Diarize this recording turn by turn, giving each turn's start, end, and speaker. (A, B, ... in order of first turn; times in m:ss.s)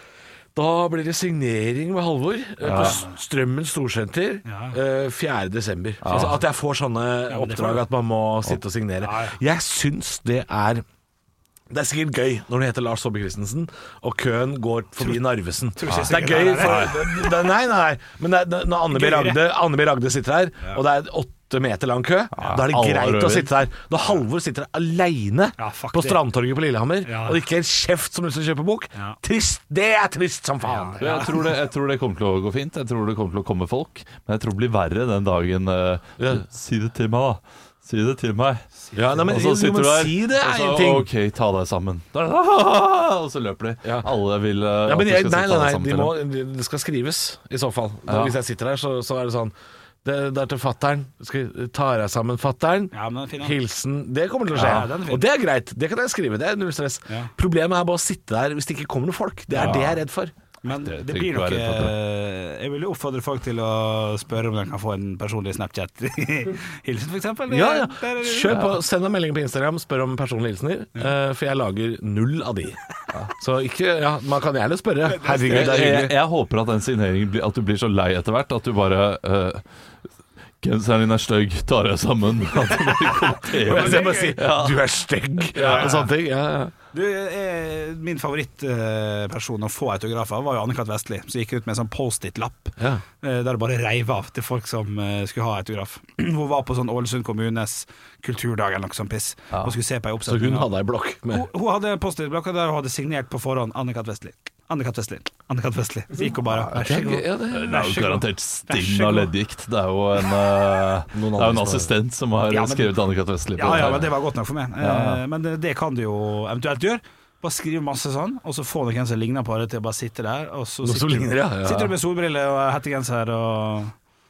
0:00.5-0:10.8 A
0:02.6-0:03.0 B
0:02.6-0:03.1 C
0:04.4-0:04.8 C
0:06.0-0:06.4 B
0:07.3-0:07.8 C
0:09.0-0:09.4 C
0:11.7-0:31.4 A
0:15.8-0:17.1 C
0:15.9-0:17.0 B
0:18.9-0:19.4 C
0:22.3-0:23.5 B
0:25.6-0:26.2 C
0:27.0-0:27.4 C
0:30.6-0:31.3 C
0:31.0-0:38.6 B
0:36.2-0:36.4 A
0:38.9-0:41.1 A
0:39.2-0:46.2 B
0:43.8-0:44.1 A
0:44.8-1:00.3 A
0:48.1-0:48.3 B
0:52.9-0:53.6 C
0:54.5-0:55.2 C
0:54.6-0:54.8 B
0:59.5-0:59.9 C
0:59.6-1:00.0 B
1:00.6-1:08.6 C
1:00.6-1:01.9 B
1:07.5-1:12.8 A
1:08.5-1:08.8 B
1:13.4-1:16.2 A
1:15.1-1:15.9 C
1:15.5-1:19.6 B
1:20.6-1:24.8 B
1:23.5-1:24.4 C
1:23.6-1:26.7 A
1:25.5-1:26.1 C
1:25.5-1:26.1 B
1:26.9-1:40.7 C
1:40.3-1:41.5 A
1:41.3-1:49.3 C
1:46.4-1:54.2 B
1:46.8-1:47.9 A
1:51.1-1:51.9 A
1:52.5-1:52.9 C
1:53.6-2:03.9 C
1:53.7-1:54.1 A
1:54.8-1:55.2 B
2:00.8-2:02.0 A